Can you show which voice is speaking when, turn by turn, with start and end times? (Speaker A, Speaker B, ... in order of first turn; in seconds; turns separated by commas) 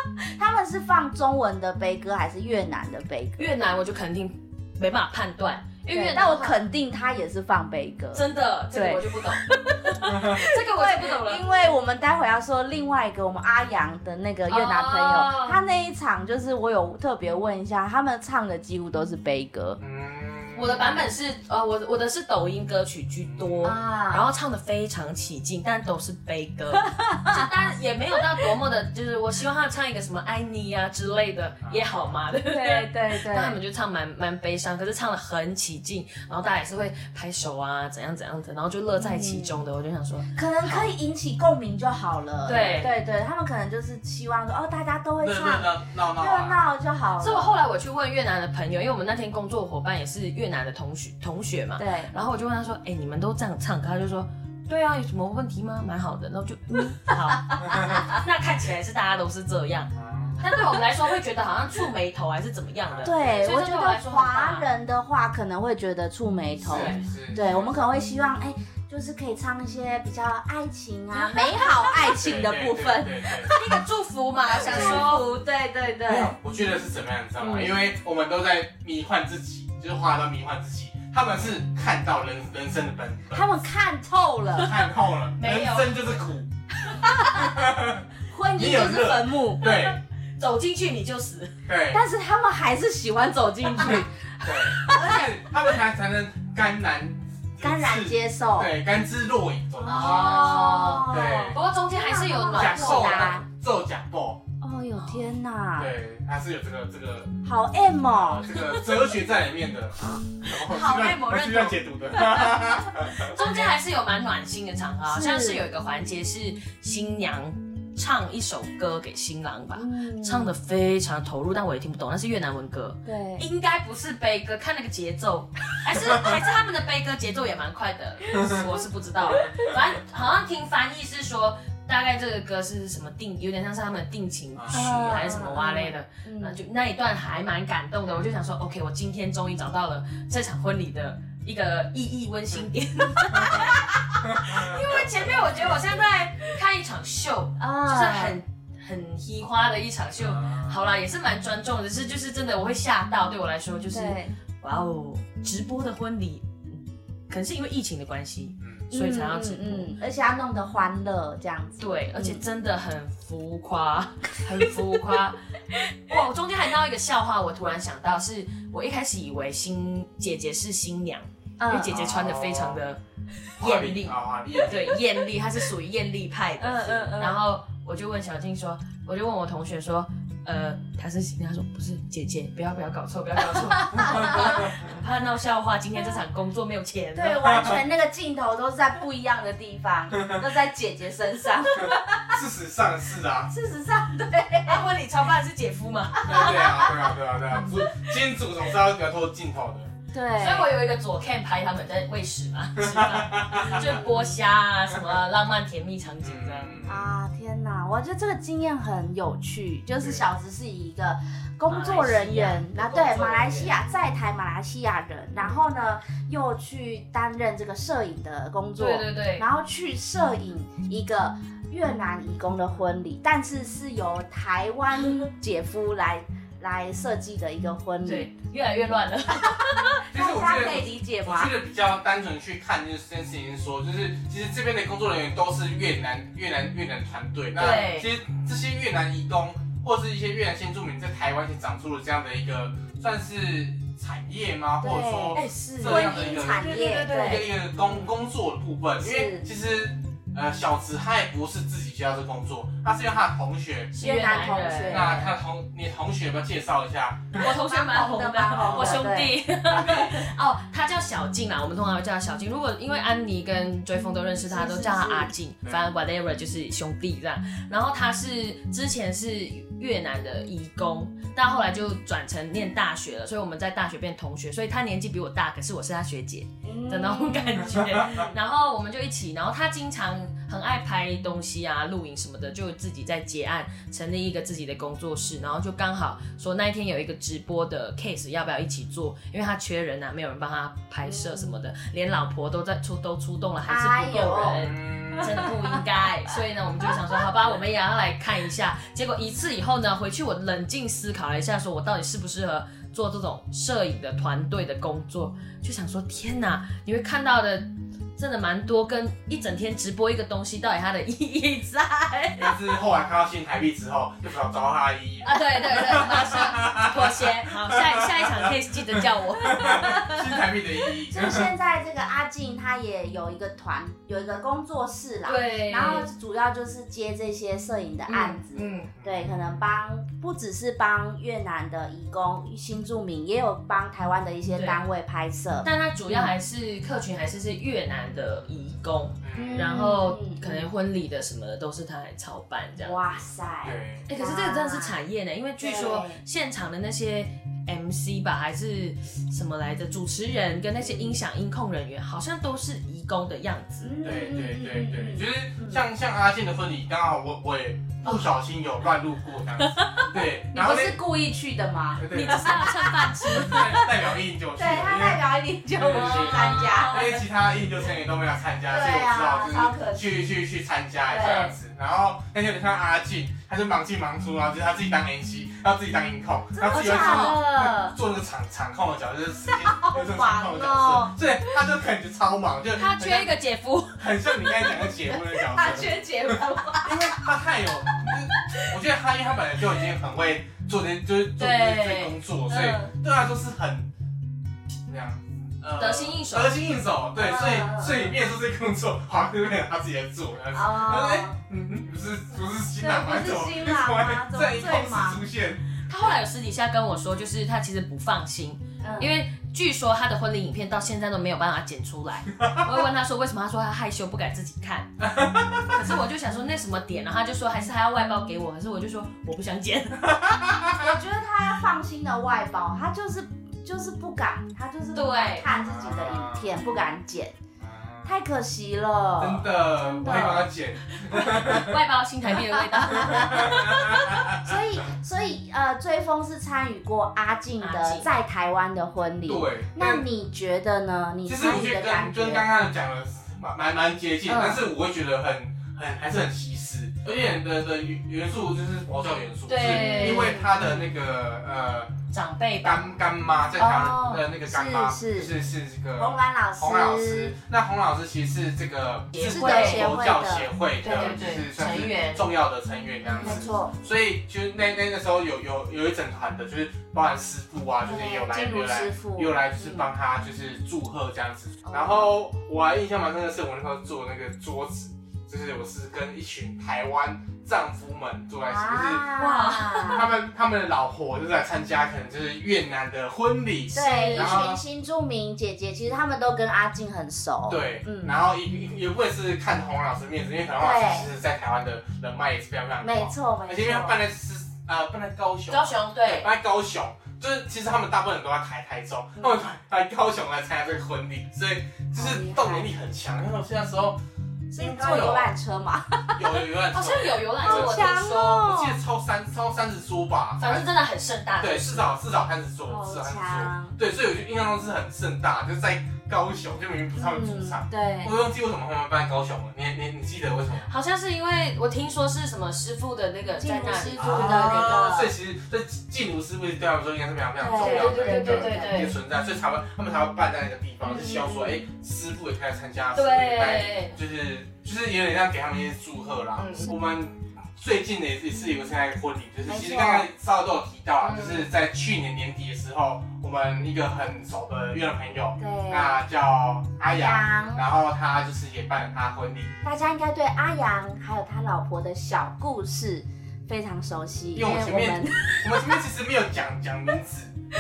Speaker A: 0.3-3.5, Speaker B: 3.4-6.6, Speaker A: 5.9-19.8, Speaker B: 8.1-11.4, Speaker B: 14.5-15.6, Speaker C: 19.8-21.0, Speaker B: 20.5-40.9, Speaker C: 23.2-23.8, Speaker A: 23.6-24.3, Speaker A: 26.8-27.5, Speaker C: 31.6-32.1, Speaker A: 32.4-33.6, Speaker A: 39.0-39.6, Speaker A: 40.4-47.5, Speaker B: 42.4-42.9, Speaker C: 45.2-46.6, Speaker B: 47.2-64.7, Speaker A: 51.8-52.1, Speaker C: 59.9-60.5, Speaker C: 62.8-63.5, Speaker A: 63.0-73.6, Speaker C: 66.6-67.9, Speaker B: 66.7-67.0, Speaker B: 71.1-71.9, Speaker C: 72.2-73.5, Speaker B: 73.5-75.2, Speaker A: 74.5-76.3, Speaker C: 74.6-75.1, Speaker C: 76.0-83.5, Speaker A: 77.4-77.7, Speaker A: 83.3-84.8, Speaker C: 84.5-86.5, Speaker B: 85.4-86.2, Speaker A: 86.9-87.6, Speaker C: 87.4-90.0, Speaker A: 88.3-89.7, Speaker B: 89.6-91.5, Speaker C: 91.7-92.0, Speaker A: 91.9-94.1, Speaker C: 93.8-101.6, Speaker A: 94.7-95.2, Speaker A: 97.6-98.7, Speaker A: 99.8-103.4, Speaker B: 99.8-103.3, Speaker C: 102.5-104.4, Speaker A: 104.6-105.9, Speaker C: 105.8-107.3, Speaker A: 107.4-108.5, Speaker C: 108.1-113.4, Speaker B: 110.5-112.6, Speaker B: 113.1-159.9, Speaker A: 115.0-115.6, Speaker A: 119.8-120.5, Speaker A: 123.0-123.4, Speaker C: 134.5-135.2, Speaker A: 134.7-136.6, Speaker C: 144.2-144.8, Speaker A: 147.6-148.4, Speaker C: 150.2-150.8, Speaker A: 153.9-154.4, Speaker C: 158.6-158.9, Speaker A: 158.9-162.4, Speaker B: 161.8-165.4, Speaker B: 166.0-173.0, Speaker A: 171.6-171.9, Speaker C: 171.9-172.8, Speaker B: 173.6-187.8, Speaker C: 173.6-175.0, Speaker A: 176.6-177.4, Speaker A: 183.6-184.6, Speaker A: 187.1-192.4, Speaker C: 191.8-193.5, Speaker A: 193.5-194.8, Speaker B: 194.6-196.6, Speaker A: 196.2-197.0, Speaker C: 196.2-199.9, Speaker A: 200.1-200.7, Speaker B: 200.4-206.8, Speaker C: 202.8-204.0, Speaker A: 203.8-204.4, Speaker C: 206.2-207.2, Speaker A: 206.9-228.3, Speaker C: 210.0-210.2, Speaker B: 211.7-213.7, Speaker B: 218.8-219.4, Speaker B: 228.0-230.0, Speaker A: 230.0-231.5, Speaker C: 230.1-253.9, Speaker B: 237.6-238.1, Speaker A: 237.6-238.0, Speaker A: 244.8-247.5, Speaker B: 245.3-247.4, Speaker A: 249.0-249.5, Speaker B: 253.9-255.2, Speaker A: 254.0-255.3, Speaker C: 254.9-257.4, Speaker B: 257.4-312.4, Speaker A: 257.4-259.4, Speaker C: 258.5-259.0, Speaker C: 259.7-260.2, Speaker A: 264.4-265.3, Speaker A: 276.6-278.3, Speaker A: 291.1-291.5, Speaker A: 293.6-295.8, Speaker C: 294.6-295.5, Speaker C: 312.4-321.5, Speaker B: 315.2-320.1, Speaker A: 319.5-320.3, Speaker A: 321.0-336.3, Speaker B: 325.2-326.1, Speaker B: 328.1-328.9, Speaker C: 328.9-329.4, Speaker B: 334.5-334.9, Speaker B: 335.6-343.0, Speaker C: 339.2-339.6, Speaker A: 339.4-340.7, Speaker A: 342.8-345.0, Speaker C: 343.6-344.1, Speaker B: 344.1-353.9, Speaker A: 345.6-346.2, Speaker A: 350.8-351.2, Speaker A: 353.8-355.8, Speaker C: 354.0-361.0, Speaker A: 359.7-367.2, Speaker C: 362.0-362.7, Speaker B: 362.1-363.7, Speaker C: 363.3-365.2, Speaker C: 365.7-383.3, Speaker B: 365.8-367.1, Speaker A: 368.7-370.2, Speaker A: 371.1-371.5, Speaker A: 376.6-377.9, Speaker B: 376.7-377.4, Speaker A: 379.4-381.6, Speaker B: 382.8-384.1, Speaker C: 384.0-393.9, Speaker A: 384.4-387.2, Speaker A: 388.5-388.8, Speaker B: 391.4-392.1, Speaker A: 392.5-392.9, Speaker C: 394.9-405.6, Speaker B: 395.7-396.6, Speaker A: 397.1-398.1, Speaker A: 400.5-401.4, Speaker A: 402.8-405.2, Speaker B: 405.9-414.9, Speaker A: 408.8-409.1, Speaker C: 415.0-415.7, Speaker B: 415.7-420.6, Speaker C: 420.2-420.8, Speaker A: 420.7-427.3, Speaker B: 424.9-425.4, Speaker C: 425.5-426.5, Speaker C: 427.6-428.1, Speaker A: 428.1-430.5, Speaker C: 429.2-431.8, Speaker B: 430.9-434.0, Speaker A: 432.5-442.5, Speaker C: 433.0-434.5, Speaker B: 437.6-438.1, Speaker C: 439.2-440.1, Speaker C: 441.2-451.9, Speaker B: 444.3-444.6, Speaker B: 449.5-450.4, Speaker A: 449.6-450.8, Speaker B: 452.1-452.8, Speaker C: 452.6-479.1, Speaker A: 453.6-455.3, Speaker A: 456.0-457.3, Speaker B: 459.1-459.9, Speaker A: 459.2-460.5, Speaker B: 460.8-462.2, Speaker A: 463.2-463.7, Speaker B: 463.2-463.5, Speaker A: 467.9-469.9, Speaker A: 471.7-472.1, Speaker A: 478.4-480.1, Speaker B: 479.2-480.1, Speaker C: 479.9-484.6, Speaker A: 483.7-488.2, Speaker B: 483.7-484.4, Speaker C: 487.5-504.0, Speaker A: 490.6-491.1, Speaker A: 492.8-494.0, Speaker B: 495.5-496.3, Speaker A: 499.1-499.5, Speaker A: 501.9-502.7, Speaker A: 504.5-506.4, Speaker C: 504.5-505.3, Speaker C: 506.1-510.7, Speaker B: 506.7-508.5, Speaker A: 507.4-508.8, Speaker B: 510.4-511.9, Speaker C: 511.4-520.7, Speaker A: 512.7-513.8, Speaker A: 517.0-518.1, Speaker B: 520.7-525.0, Speaker A: 523.4-525.1, Speaker C: 524.0-549.5, Speaker A: 527.4-528.8, Speaker B: 527.6-528.9, Speaker A: 530.9-531.6, Speaker B: 532.9-534.0, Speaker B: 536.4-536.7, Speaker A: 539.5-540.1, Speaker B: 541.0-541.5, Speaker A: 545.4-546.0, Speaker A: 546.8-547.6, Speaker A: 549.6-555.7, Speaker C: 554.4-557.3